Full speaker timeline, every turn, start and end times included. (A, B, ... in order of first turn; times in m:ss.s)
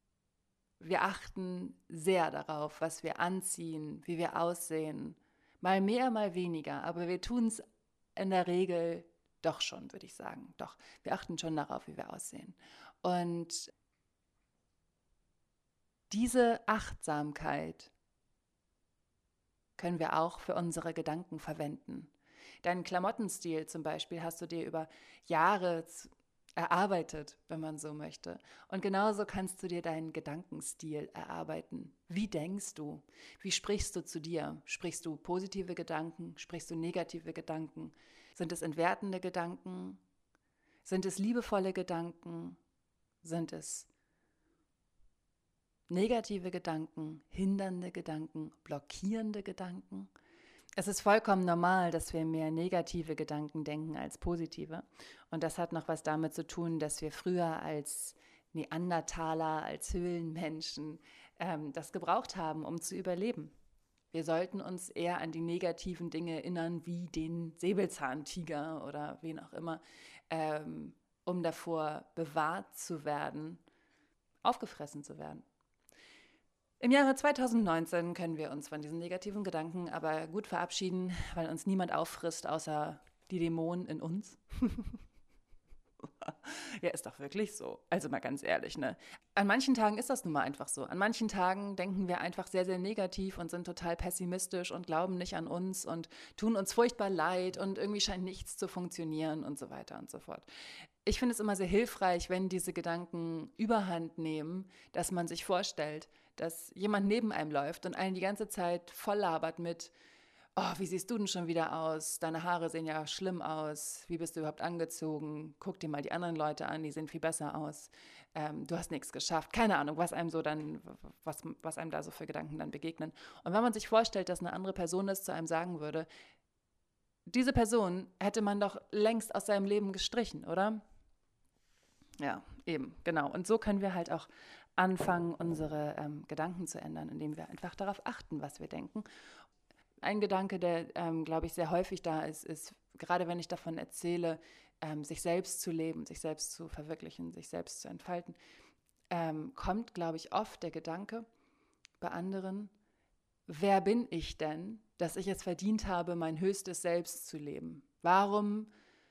0:00.8-0:07.6 A
0:08.2-0:13.7 A
0:16.1-0:17.9 A
0:19.8-0:22.1 A
0:22.6-0:40.0 A
0:40.8-0:42.6 A
0:43.2-0:43.9 A
0:45.9-0:50.1 A
0:50.8-1:03.5 A
1:04.1-1:13.6 A
1:14.4-1:15.4 A
1:16.8-1:25.0 A
1:26.2-1:40.5 A
1:41.0-1:49.9 A
1:50.6-2:06.1 A
2:07.3-2:10.8 A
2:12.2-2:19.0 A
2:20.0-2:28.4 A
2:29.1-2:31.2 A
2:32.0-2:32.7 A
2:33.5-2:38.7 A